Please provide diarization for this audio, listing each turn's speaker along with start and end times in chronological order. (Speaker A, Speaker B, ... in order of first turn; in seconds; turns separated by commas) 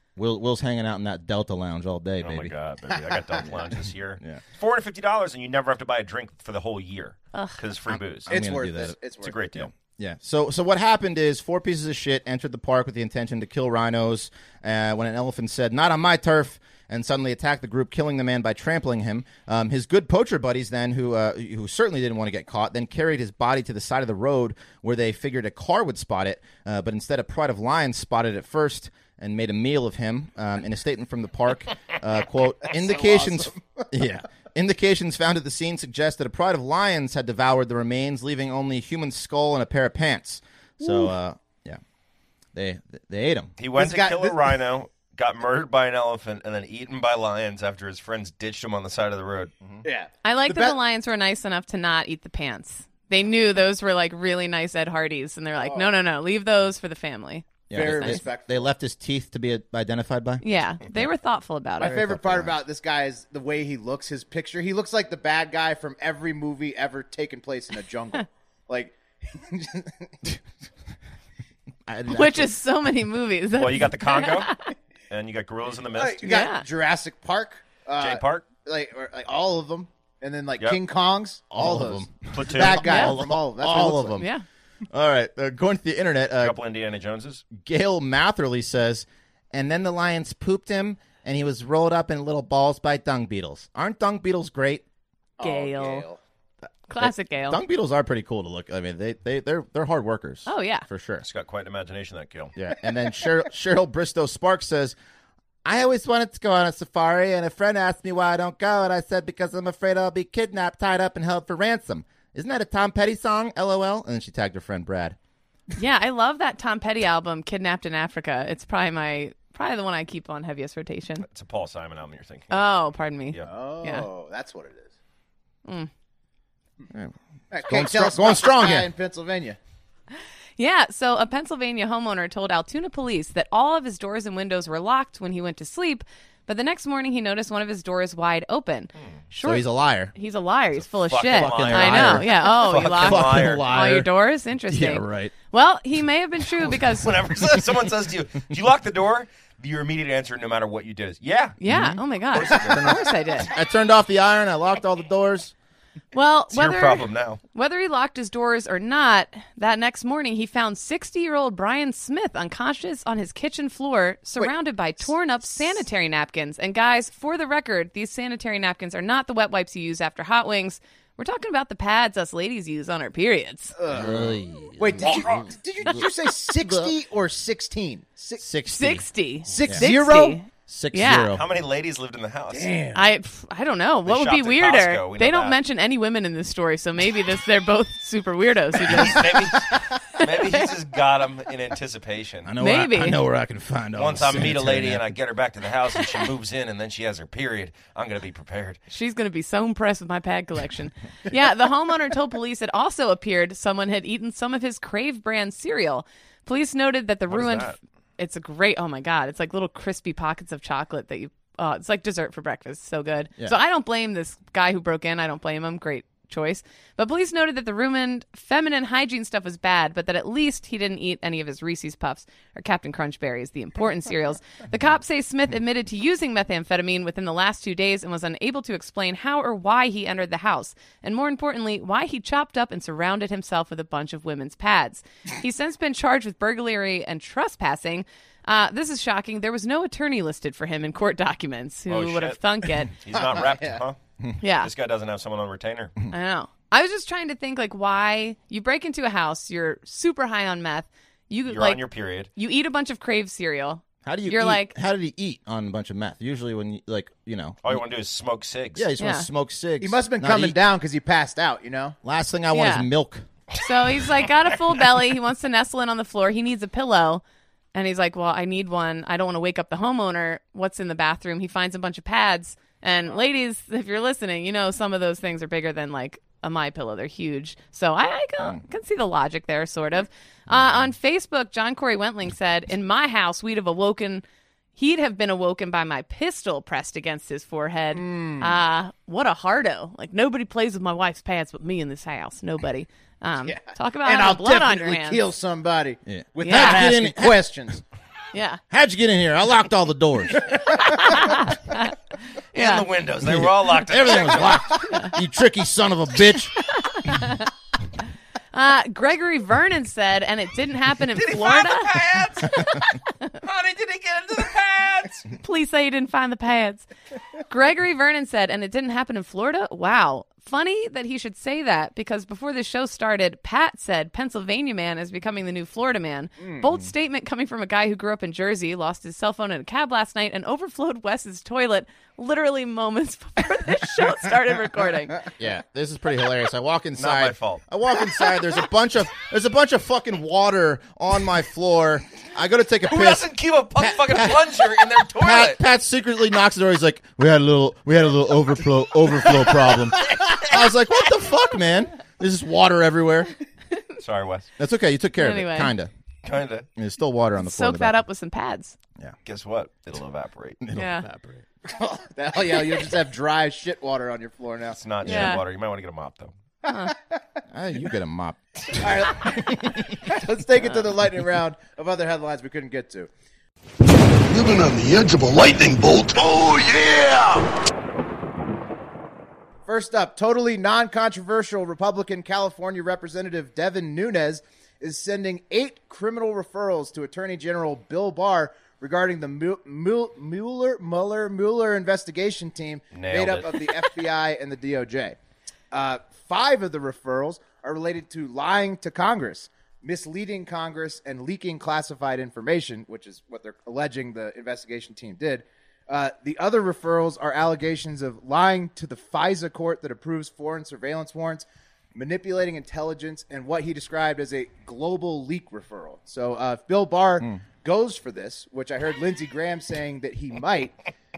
Speaker A: 0.2-2.5, Speaker B: 2.2-8.4, Speaker C: 3.0-3.5, Speaker A: 3.5-4.4, Speaker A: 7.9-9.0, Speaker C: 8.3-9.5, Speaker B: 9.2-9.7, Speaker A: 9.6-41.8, Speaker C: 32.7-33.9, Speaker A: 42.5-43.5, Speaker B: 43.6-49.5, Speaker C: 43.8-44.5, Speaker C: 49.8-50.8, Speaker D: 50.2-58.2, Speaker C: 55.6-55.9, Speaker A: 57.7-60.4, Speaker C: 57.7-58.7, Speaker D: 60.4-62.0, Speaker A: 61.8-62.6, Speaker C: 61.8-70.2, Speaker A: 71.9-72.5, Speaker D: 72.1-74.7, Speaker B: 73.6-74.6, Speaker B: 75.1-76.3, Speaker C: 76.0-84.2, Speaker D: 76.2-76.7, Speaker B: 78.0-78.5, Speaker A: 81.5-84.3, Speaker B: 82.3-82.8, Speaker D: 82.8-83.2, Speaker D: 84.2-84.4, Speaker A: 84.9-86.6, Speaker B: 86.4-87.5, Speaker A: 87.5-94.8, Speaker C: 95.4-96.2, Speaker D: 95.4-96.1, Speaker D: 96.9-97.6, Speaker A: 97.0-101.2, Speaker D: 100.5-100.9, Speaker B: 101.2-102.5, Speaker A: 102.6-105.0, Speaker A: 105.7-115.2, Speaker D: 115.8-121.3, Speaker B: 121.2-122.7, Speaker D: 122.5-124.1, Speaker C: 123.5-124.9, Speaker A: 126.9-128.9, Speaker C: 127.5-129.6, Speaker D: 130.6-147.1, Speaker A: 139.4-140.1, Speaker B: 140.8-143.7, Speaker A: 141.3-144.1, Speaker A: 144.7-145.3, Speaker B: 146.9-151.6, Speaker D: 151.6-153.5, Speaker A: 151.7-155.5, Speaker B: 152.3-152.9, Speaker D: 156.1-173.8, Speaker B: 156.5-157.4, Speaker C: 173.8-178.4, Speaker A: 173.9-176.9, Speaker A: 178.4-179.1, Speaker D: 178.7-181.4, Speaker C: 179.5-180.4, Speaker A: 179.6-179.9, Speaker A: 180.7-181.5, Speaker B: 181.3-182.7, Speaker C: 182.5-183.1, Speaker D: 182.9-190.3, Speaker B: 184.1-185.6, Speaker B: 188.8-192.5, Speaker A: 192.4-195.1, Speaker D: 192.6-193.2, Speaker B: 193.9-198.8, Speaker D: 198.9-242.9, Speaker B: 207.3-207.8, Speaker B: 241.9-244.0, Speaker C: 243.1-243.8, Speaker D: 244.4-244.7, Speaker B: 244.6-245.9, Speaker D: 246.1-254.8, Speaker B: 251.5-252.3, Speaker A: 254.0-257.8, Speaker B: 257.6-258.9, Speaker A: 258.8-260.6, Speaker D: 259.0-259.3, Speaker C: 259.8-262.0, Speaker A: 262.0-263.3, Speaker D: 262.5-262.9, Speaker D: 263.6-267.2, Speaker D: 267.7-284.2, Speaker D: 284.8-295.2, Speaker C: 287.9-288.6, Speaker C: 293.5-297.8, Speaker A: 296.1-297.4, Speaker D: 296.4-296.9, Speaker D: 298.3-298.6, Speaker A: 298.7-300.6, Speaker D: 301.0-301.9, Speaker B: 302.5-304.8, Speaker D: 302.6-302.9, Speaker A: 303.2-306.6, Speaker D: 306.8-307.5, Speaker D: 308.5-312.0, Speaker B: 311.1-312.8, Speaker D: 312.5-313.3, Speaker B: 313.4-315.2, Speaker D: 315.3-316.9, Speaker D: 317.5-335.3, Speaker A: 335.4-353.3, Speaker B: 337.0-337.6, Speaker B: 342.9-345.6, Speaker B: 350.2-350.5, Speaker B: 354.0-354.5, Speaker A: 354.6-355.9, Speaker D: 355.2-355.7, Speaker B: 356.2-356.7, Speaker A: 356.8-357.9, Speaker D: 357.4-358.8, Speaker B: 359.2-360.6, Speaker A: 360.6-361.4, Speaker D: 360.8-361.1, Speaker C: 361.7-364.8, Speaker B: 364.7-366.3, Speaker D: 365.0-365.4, Speaker A: 365.1-365.4, Speaker D: 366.6-366.9, Speaker C: 366.7-367.2, Speaker A: 367.5-369.9, Speaker C: 368.8-373.1, Speaker E: 374.2-377.5, Speaker C: 379.7-395.2, Speaker B: 392.9-393.6, Speaker C: 395.7-420.8